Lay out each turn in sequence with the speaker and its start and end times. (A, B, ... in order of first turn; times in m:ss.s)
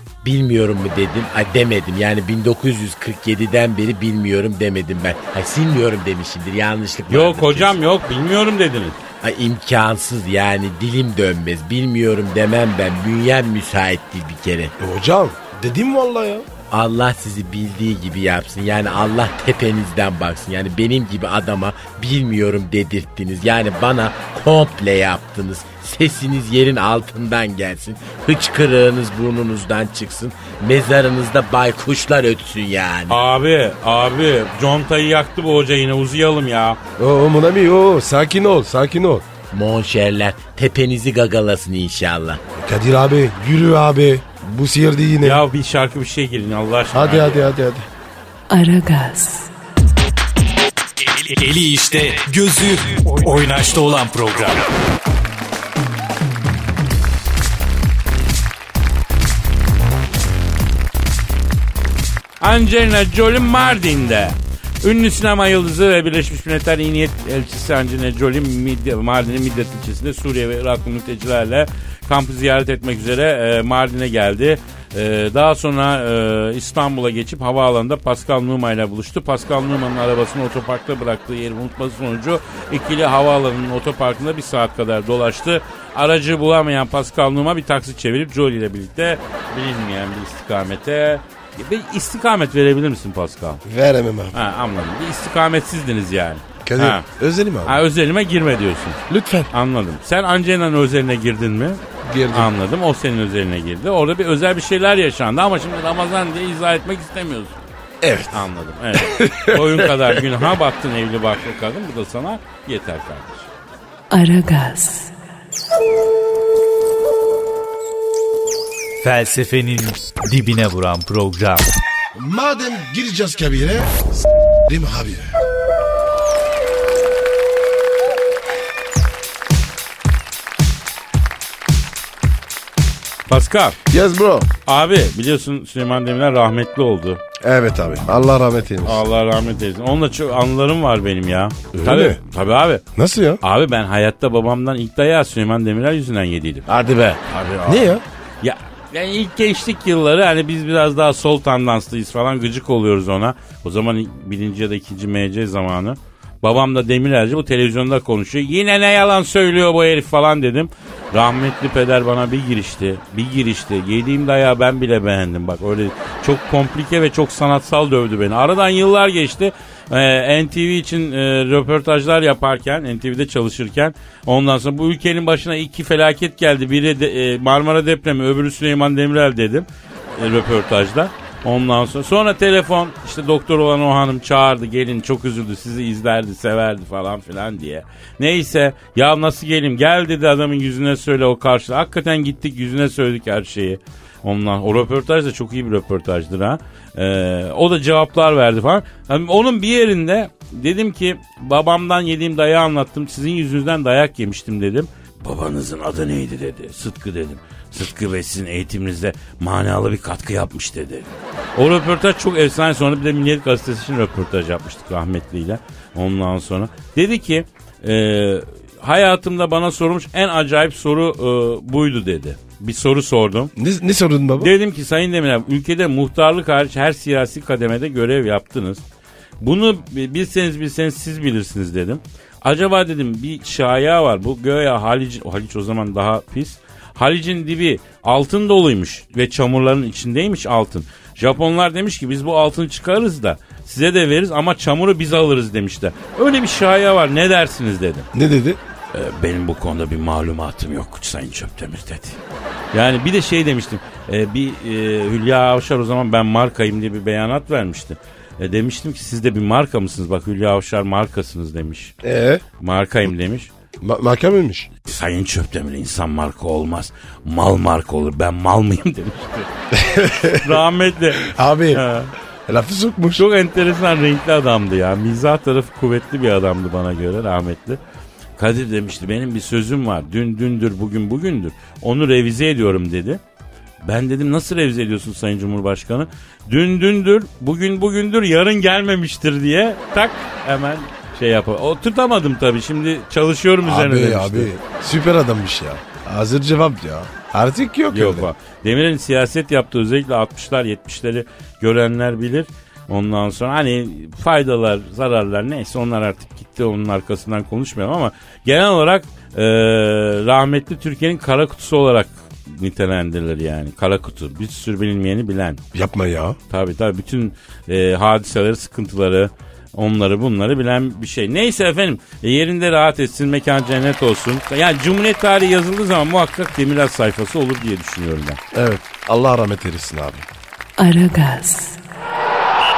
0:00.2-0:07.8 A
0:07.1-0:09.0 B
0:09.2-0:14.7 A
0:14.8-0:16.4 C
0:16.7-0:33.2 A
0:33.1-0:36.8 B
0:37.0-0:39.2 C
0:39.5-0:42.4 A
0:42.5-0:45.4 C
0:45.2-0:47.5 B
0:46.9-0:47.8 C
0:48.5-0:49.5 D
0:51.1-0:54.7 E
1:02.4-1:33.6 B
1:33.6-1:34.3 C
1:34.3-1:37.0 B
1:36.6-1:37.8 C
1:37.6-1:39.0 B
1:39.1-1:39.5 C
1:39.5-1:47.6 B
1:42.0-1:42.5 C
1:48.0-1:50.2 C
1:48.3-1:53.5 B
1:54.1-1:55.1 D
1:59.0-2:01.6 E
2:02.1-2:03.9 C
2:04.6-2:05.3 C
2:13.3-2:13.8 B
2:13.9-2:14.5 C
2:14.6-2:17.2 B
2:17.4-2:19.0 C
2:18.8-2:22.8 B
2:21.7-2:22.2 C
2:22.9-2:23.4 C
2:23.4-2:26.6 B
2:26.7-2:27.7 A
2:27.5-2:27.8 B
2:27.6-2:28.0 C
2:28.4-3:43.5 B
3:43.6-3:44.5 C
3:44.4-3:48.8 B
3:49.4-4:08.1 B
4:08.1-4:08.6 C
4:08.9-4:12.2 B
4:12.7-4:21.9 B
4:22.0-4:22.4 C
4:22.6-4:23.5 B
4:23.8-4:24.7 C
4:24.9-4:29.5 B
4:29.7-4:30.5 C
4:30.2-4:32.1 B
4:31.2-4:31.8 C
4:32.5-4:33.2 C
4:33.1-4:37.8 B
4:38.4-4:43.2 B
4:43.8-4:54.5 B
4:53.6-4:58.3 C
4:57.9-5:15.6 B
5:15.7-5:16.4 C
5:16.5-5:28.4 B
5:28.5-5:30.3 C
5:30.8-5:31.8 D